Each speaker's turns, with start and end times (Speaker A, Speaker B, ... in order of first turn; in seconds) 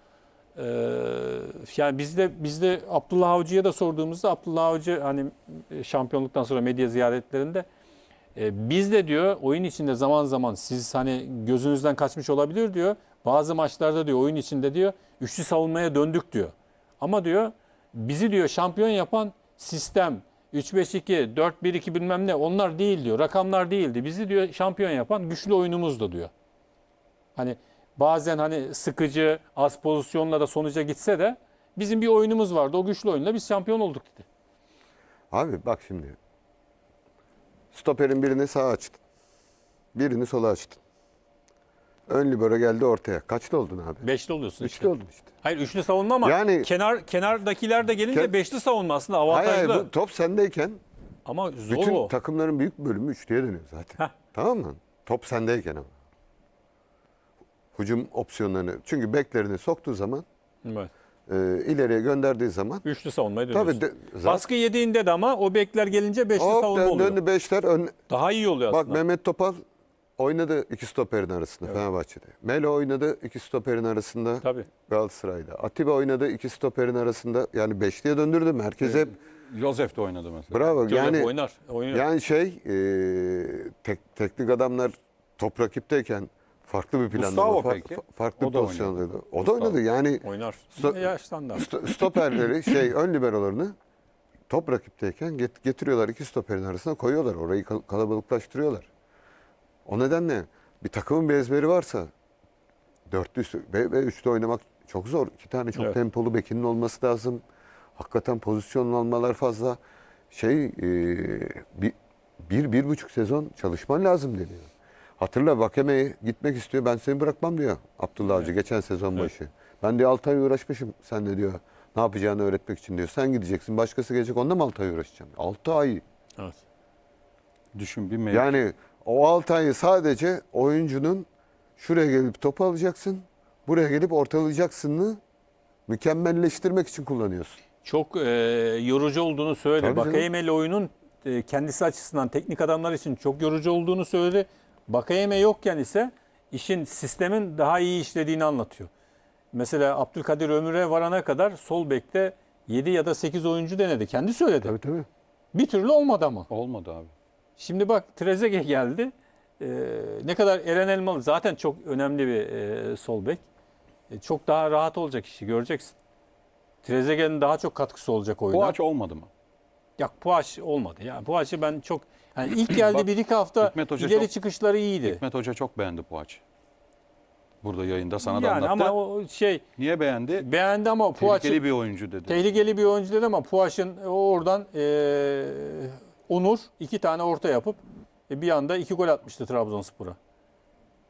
Speaker A: 0.6-7.7, 8.3-26.3, 27.4-34.2, 44.0-44.9, 45.4-49.9, 51.2-52.1, 60.6-60.9, 62.8-67.2, 68.1-69.0, 74.4-74.7, 80.8-82.0, 90.2-91.7, 137.8-148.9, 149.5-154.7, 155.5-156.5, 157.6-163.4, 164.1-165.9, 166.8-168.8, 170.0-175.2, 178.2-179.6, 180.4-181.6, 182.2-187.8, 188.3-190.2
Speaker B: 35.3-36.1, 37.7-39.0, 39.9-40.8, 42.1-44.0, 44.6-45.3, 46.2-46.7, 49.3-50.8, 51.7-55.9, 57.7-60.2, 61.3-62.8, 63.5-64.4, 66.3-68.0, 68.7-69.6, 70.2-79.2, 80.5-81.3, 81.9-93.7, 94.5-98.9, 99.8-102.1, 103.1-107.4, 108.0-109.8, 110.3-126.0, 128.3-135.2, 135.9-137.6, 139.8-140.3, 154.6-155.1
Speaker C: 78.8-80.7, 87.1-89.8, 127.7-128.6, 156.5-157.1, 168.5-169.3, 172.5-173.1, 173.6-174.3, 175.0-176.4, 177.6-178.9, 179.8-180.5, 181.2-182.4